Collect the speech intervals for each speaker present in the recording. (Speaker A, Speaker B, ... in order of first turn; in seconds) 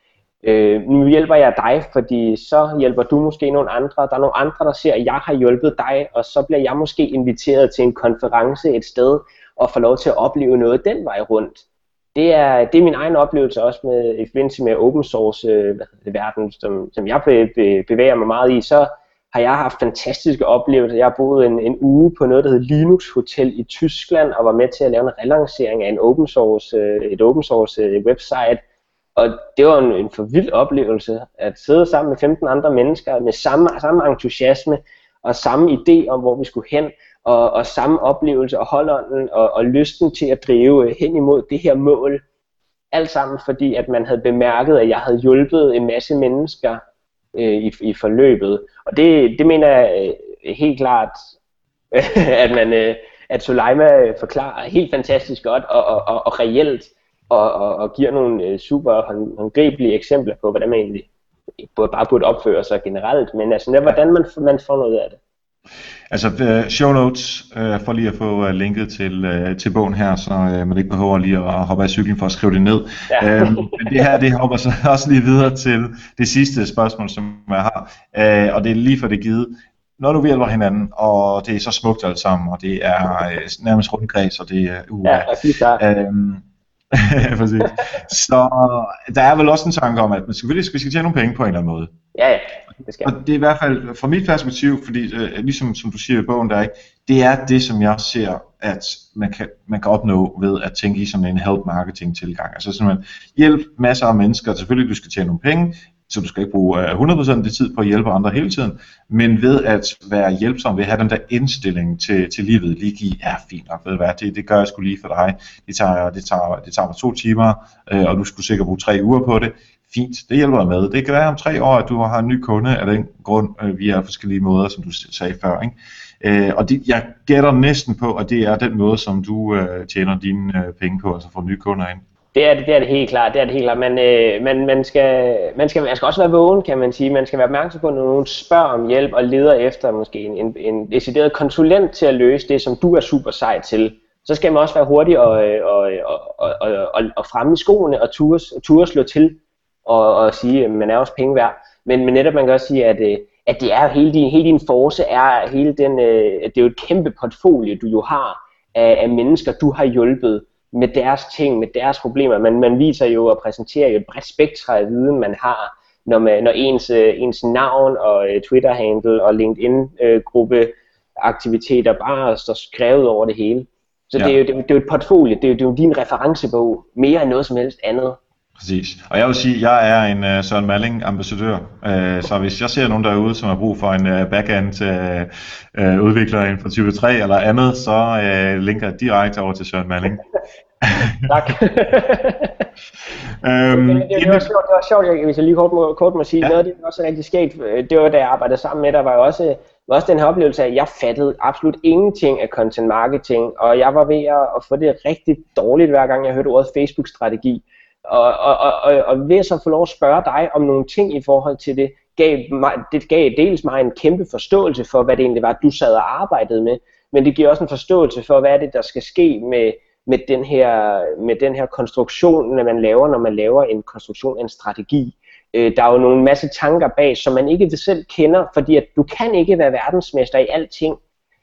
Speaker A: 0.4-28.6, 29.1-42.2, 42.9-46.8, 47.3-51.3, 51.9-61.1, 61.6-65.2, 73.1-74.0, 85.0-85.8, 92.1-93.1, 132.3-178.2, 191.2-192.6, 193.7-231.0
Speaker B: 66.1-91.9, 93.0-132.0, 178.6-190.2, 190.8-191.6, 193.4-194.5